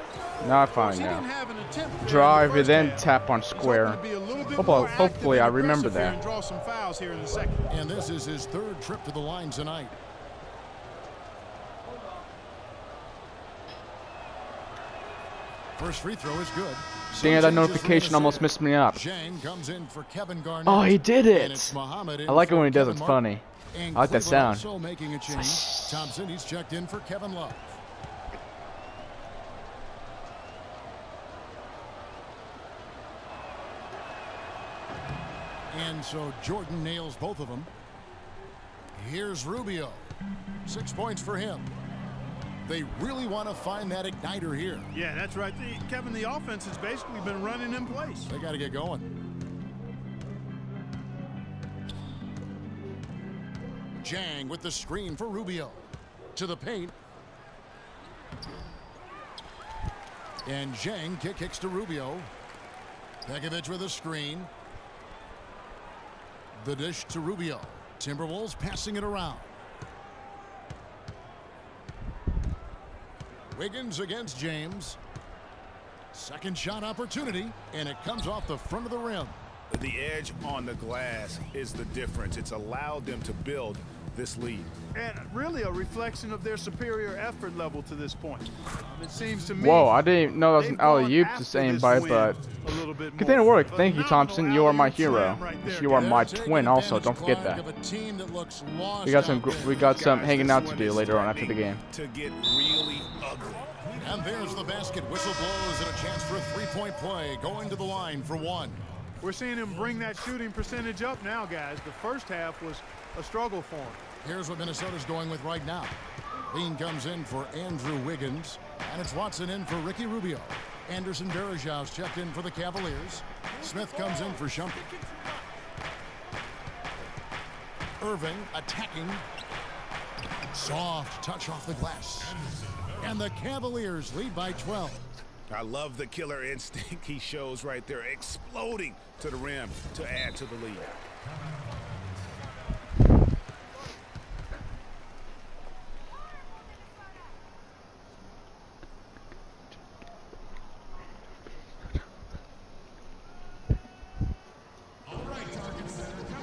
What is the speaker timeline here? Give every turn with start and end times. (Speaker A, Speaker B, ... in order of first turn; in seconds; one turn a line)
Speaker A: 0.4-1.2
Speaker B: 0.7-7.7
Speaker A: 2.0-4.0
Speaker A: 4.5-6.2
Speaker C: 7.7-9.9
Speaker C: 15.8-27.8
Speaker A: 17.1-19.0
Speaker A: 20.6-24.7
Speaker A: 25.6-25.9
Speaker C: 35.7-37.7
Speaker C: 38.9-40.1
Speaker C: 40.6-41.7
Speaker C: 42.6-44.9
Speaker B: 44.9-48.3
Speaker C: 48.2-49.1
Speaker C: 54.0-56.9
Speaker C: 60.4-62.3
Speaker C: 63.2-64.5
Speaker C: 66.5-69.5
Speaker C: 73.5-75.0
Speaker C: 76.1-79.4
Speaker D: 79.7-84.7
Speaker B: 84.9-90.0
Speaker A: 89.6-92.4
Speaker B: 90.5-96.1
Speaker A: 93.2-97.6
Speaker C: 95.9-99.8
Speaker A: 99.0-101.8
Speaker D: 99.8-103.8
Speaker C: 104.0-108.8
Speaker B: 109.2-114.0
Speaker C: 114.2-116.0
Speaker C: 116.5-124.9
Speaker C: 128.0-129.2
Speaker C: 130.5-132.4
Speaker C: 133.0-135.0
Speaker D: 135.5-140.9